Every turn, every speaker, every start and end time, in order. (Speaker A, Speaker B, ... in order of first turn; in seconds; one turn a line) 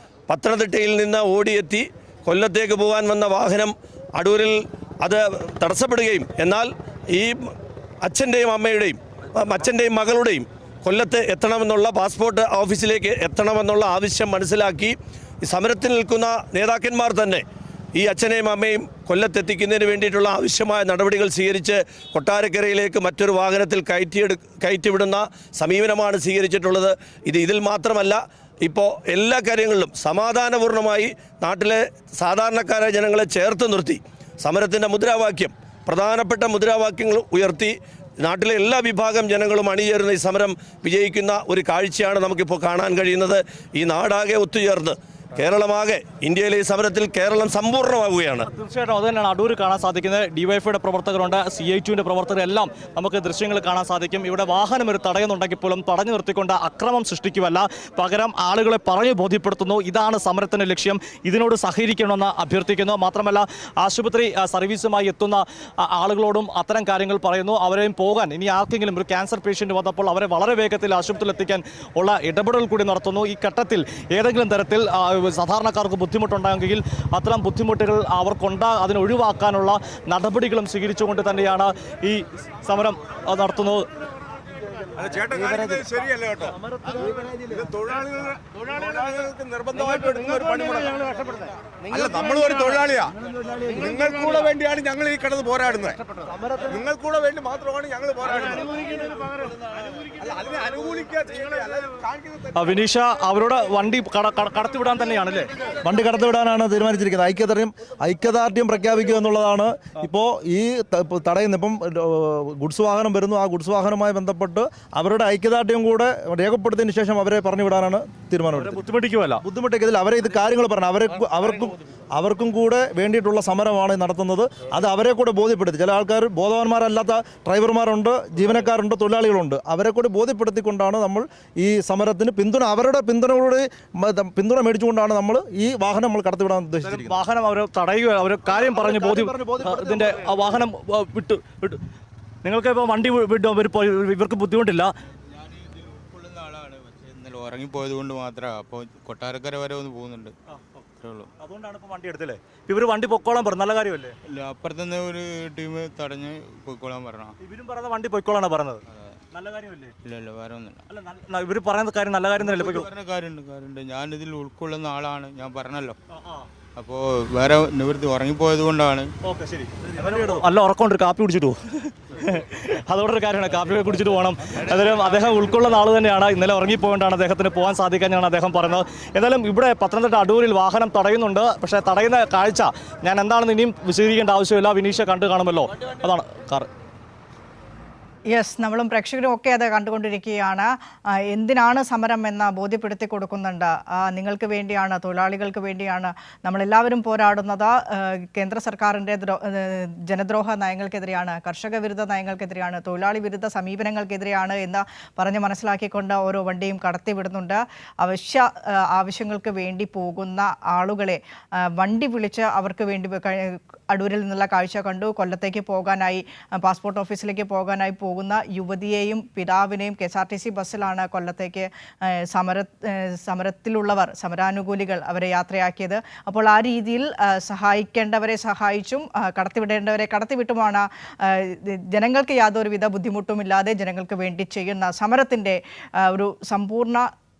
Speaker A: 0.3-17.4
Speaker A: 17.9-48.5
Speaker B: 48.5-83.8
Speaker C: 84.9-93.2
Speaker C: 93.7-102.6
Speaker B: 102.5-105.5
Speaker D: 105.8-118.8
Speaker B: 118.5-119.4
Speaker D: 119.4-137.2
Speaker B: 136.8-141.8
Speaker D: 138.5-140.3
Speaker B: 142.4-144.9
Speaker E: 145.3-150.3
Speaker B: 150.5-150.8
Speaker E: 151.0-151.3
Speaker B: 151.4-154.1
Speaker E: 154.3-157.3
Speaker B: 157.4-159.9
Speaker E: 158.9-159.2
Speaker E: 160.0-160.8
Speaker B: 160.9-162.9
Speaker E: 162.4-166.0
Speaker B: 166.1-166.5
Speaker E: 166.8-169.1
Speaker B: 169.2-186.7
Speaker F: 188.3-237.1